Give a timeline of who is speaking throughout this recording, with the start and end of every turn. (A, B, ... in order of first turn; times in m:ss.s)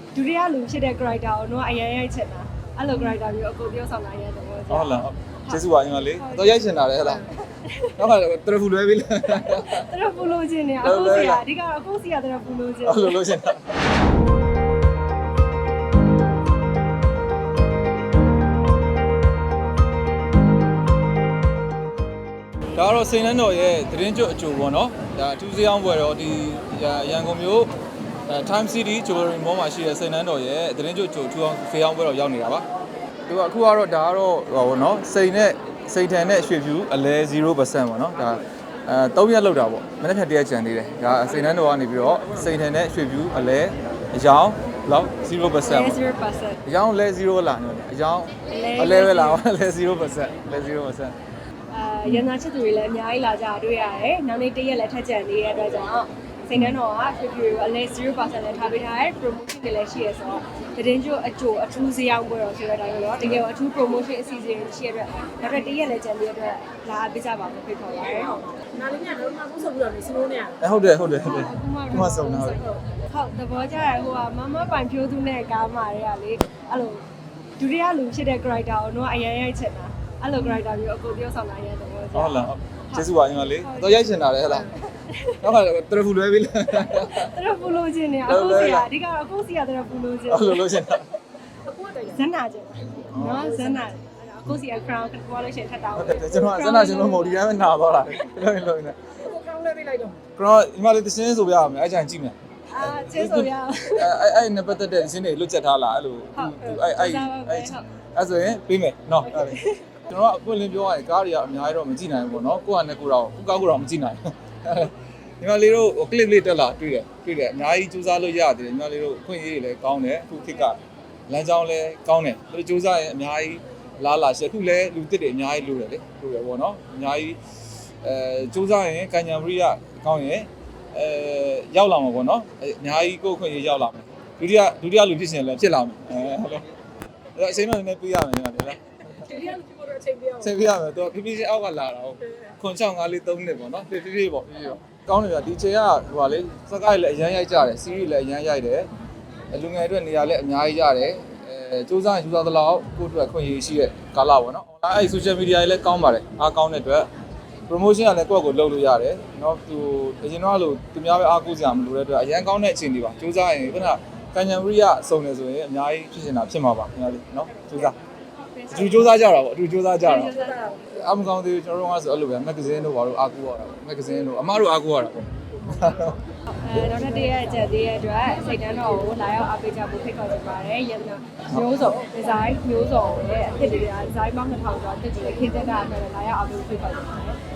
0:00.1-0:05.6 A
0:02.9-0:03.2 B
0:04.7-0:07.3 B
0:06.2-0:08.0 A
0:08.0-0:09.9 B
0:09.3-0:13.5 A
0:10.8-0:11.4 B
0:12.8-0:13.7 B
0:22.7-0:27.7 B
0:28.3-0:32.6 B
0:33.3-0:46.0 B
0:45.6-0:46.6 A
0:46.6-0:51.2 B
0:48.5-0:49.4 A
0:51.7-1:08.5 A
1:08.7-1:10.6 C
1:10.6-1:12.6 B
1:11.2-1:17.0 A
1:17.6-1:23.1 A
1:22.1-1:24.8 B
1:23.6-1:25.4 A
1:25.4-1:27.4 B
1:26.9-1:30.9 A
1:28.3-1:28.9 B
1:30.3-1:31.1 B
1:31.6-1:32.2 C
1:32.0-1:37.6 A
1:33.1-1:33.6 B
1:36.0-1:39.0 B
1:39.2-1:40.2 C
1:40.4-2:07.4 B
1:42.7-1:44.2 A
1:46.4-1:47.8 A
1:49.3-1:49.9 A
2:08.0-2:16.7 B
2:17.4-2:19.4 B
2:19.3-2:20.5 C
2:20.4-2:28.9 B
2:29.5-2:37.1 B
2:37.7-2:48.0 B
2:48.7-2:56.2 B
2:50.0-2:50.8 A
2:56.5-3:07.4 A